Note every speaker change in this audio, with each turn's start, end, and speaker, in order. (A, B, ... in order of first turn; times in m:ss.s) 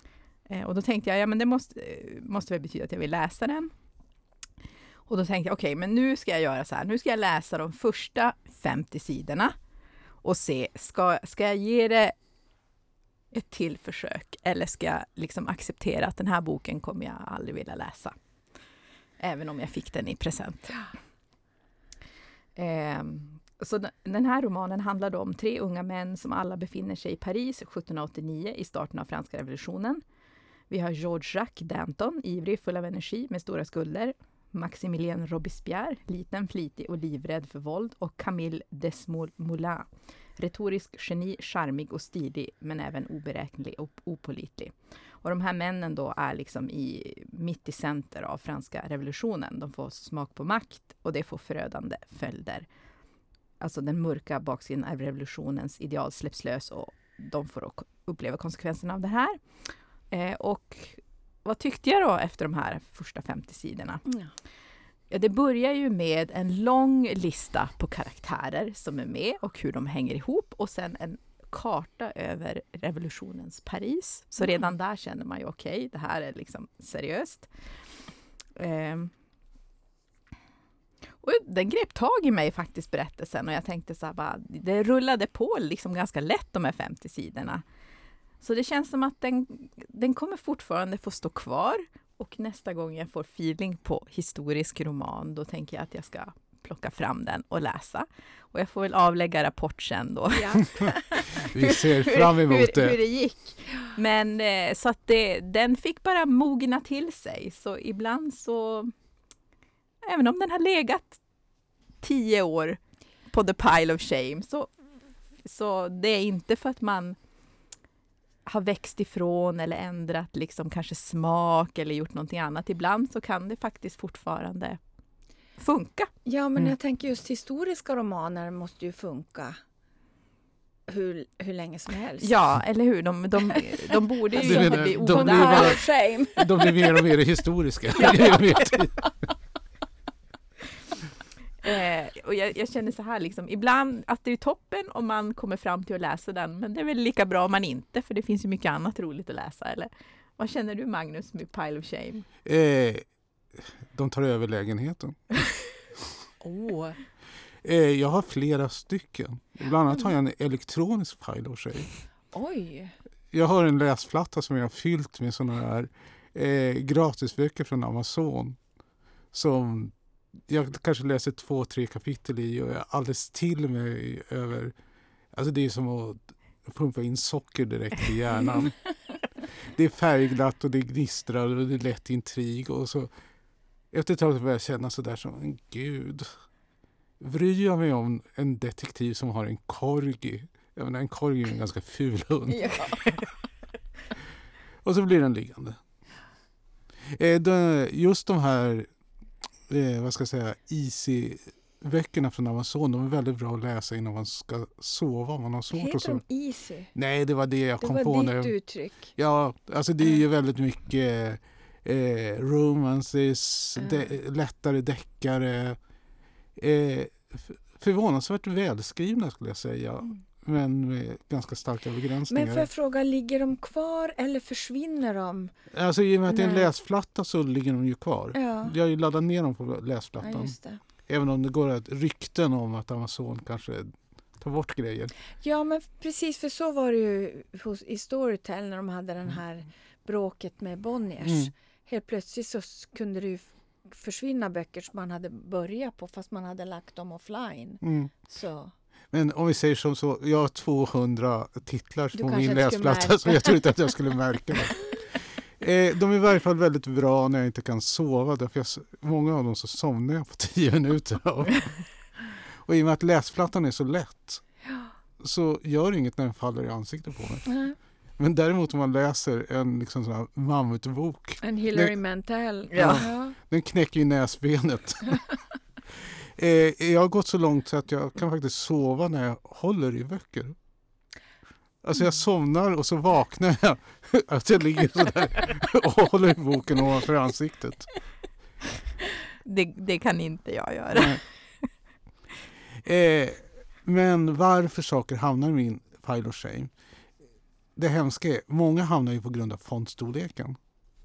0:00.5-0:03.7 A
0:05.1-0:09.6 A
0:10.2-0:12.2 A
0:13.3-0:18.2 A
0:19.2-0:20.9 A
0:22.6-0:30.0 A
0:30.7-0:52.7 A
0:53.6-0:59.4 A
1:00.1-1:04.0 A
1:05.1-1:17.5 A
1:14.4-1:14.7 B
1:18.6-1:19.1 A
1:21.2-1:27.6 A
1:28.4-1:48.9 A
1:40.4-1:41.3 B
1:41.3-1:43.0 C
1:50.0-1:51.2 A
1:52.0-1:54.7 A
1:55.4-1:57.2 A
1:58.5-2:04.8 A
2:05.6-2:06.1 A
2:06.3-2:09.6 B
2:10.9-2:12.3 B
2:12.2-2:15.8 A
2:13.5-2:17.0 B
2:14.4-2:15.8 C
2:16.4-2:19.1 C
2:18.0-2:18.4 B
2:21.6-2:32.3 A
2:32.4-2:35.4 C
2:36.4-2:37.0 B
2:37.6-2:41.9 C
2:42.3-2:43.0 B
2:43.3-2:48.6 C
2:49.3-2:49.9 C
2:50.5-2:54.7 C
2:55.3-2:58.8 C
2:59.6-3:03.1 C
3:03.9-3:06.3 C
3:07.2-3:13.1 C
3:12.5-3:13.2 B
3:14.8-3:15.8 C
3:17.0-3:18.9 C
3:19.7-3:26.2 C
3:25.7-3:26.9 B
3:27.0-3:28.6 C
3:27.8-3:29.1 B
3:29.1-3:35.8 C
3:33.8-3:34.1 B
3:36.6-3:42.7 C
3:42.3-3:45.5 B
3:45.7-3:50.6 C
3:46.3-3:46.7 B
3:48.3-3:48.8 B
3:50.2-3:50.8 B
3:51.1-3:55.1 C
3:55.4-4:08.7 B
4:01.2-4:01.5 C
4:07.8-4:08.1 C
4:09.1-4:21.8 C
4:12.2-4:13.7 B
4:22.6-4:24.4 C
4:25.2-4:27.5 C
4:27.5-4:27.8 B
4:28.2-4:31.9 C
4:31.4-4:33.4 B
4:32.7-4:33.1 A
4:32.7-4:35.2 C
4:36.0-4:40.6 C
4:41.8-4:47.9 C
4:49.4-4:51.2 A
4:50.9-4:51.2 C
4:52.8-4:56.7 C
4:57.8-5:00.6 C